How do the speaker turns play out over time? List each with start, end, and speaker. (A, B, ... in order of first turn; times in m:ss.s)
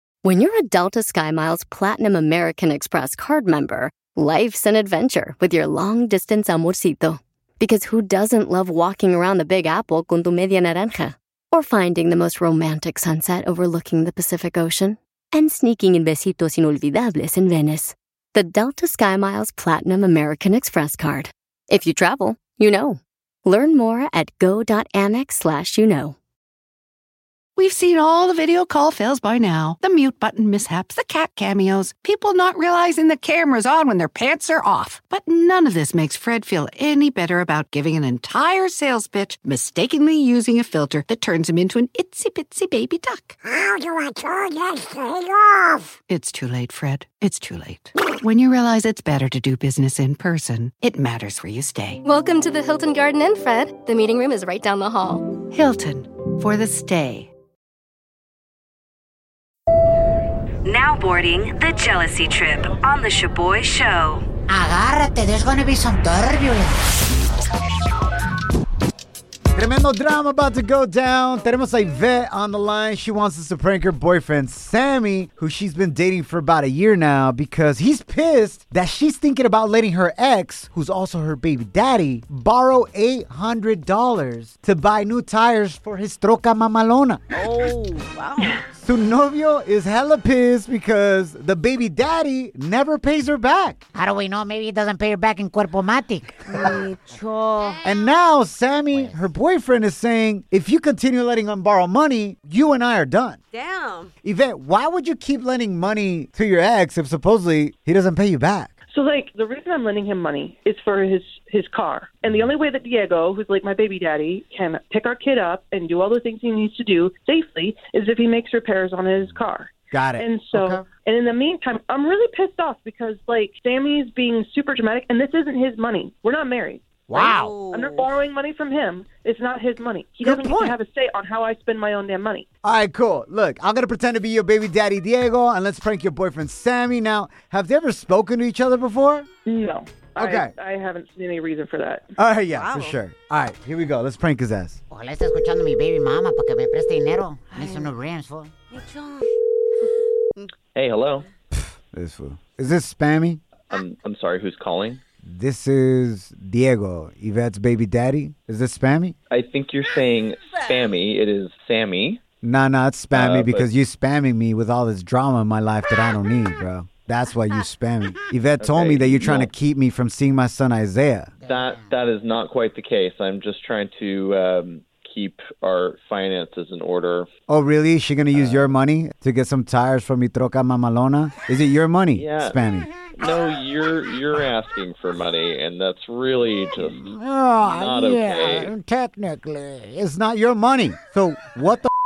0:00.2-0:26.1 A
0:27.6-0:43.4 B
0:46.1-0:52.0 B
0:52.0-0:55.3 C
0:55.5-0:57.3 B
1:00.6-1:04.2 D
1:04.5-1:07.0 E
1:09.5-1:27.2 F
1:27.3-1:28.6 D
1:28.7-1:33.8 F
1:33.9-1:36.8 E
1:36.4-1:37.8 D
1:37.8-1:43.4 F
1:38.9-1:39.3 E
1:43.5-1:44.1 D
1:44.2-1:48.8 F
1:48.9-2:07.0 G
1:59.9-2:00.8 F
2:07.1-2:07.4 F
2:07.1-2:08.1 D
2:07.1-2:07.6 E
2:07.7-2:12.4 G
2:10.2-2:10.7 F
2:12.6-2:19.3 F
2:19.4-2:22.1 G
2:20.2-2:20.5 F
2:22.2-2:24.8 F
2:22.5-2:23.0 D
2:24.9-2:28.5 E
2:27.5-2:27.9 D
2:28.7-2:29.3 D
2:30.7-2:31.3 H
2:31.5-2:33.4 F
2:33.7-2:35.0 H
2:35.2-2:39.2 F
2:39.3-2:42.2 H
2:42.4-2:51.3 F
2:43.1-2:43.7 H
2:48.6-2:49.5 H
2:51.4-2:51.9 E
2:51.4-2:57.3 H
2:57.5-3:02.9 F
2:58.3-2:58.7 H
3:02.2-3:02.6 H
3:03.1-3:07.1 H
3:06.8-3:10.0 E
3:07.6-3:08.7 H
3:10.0-3:11.9 F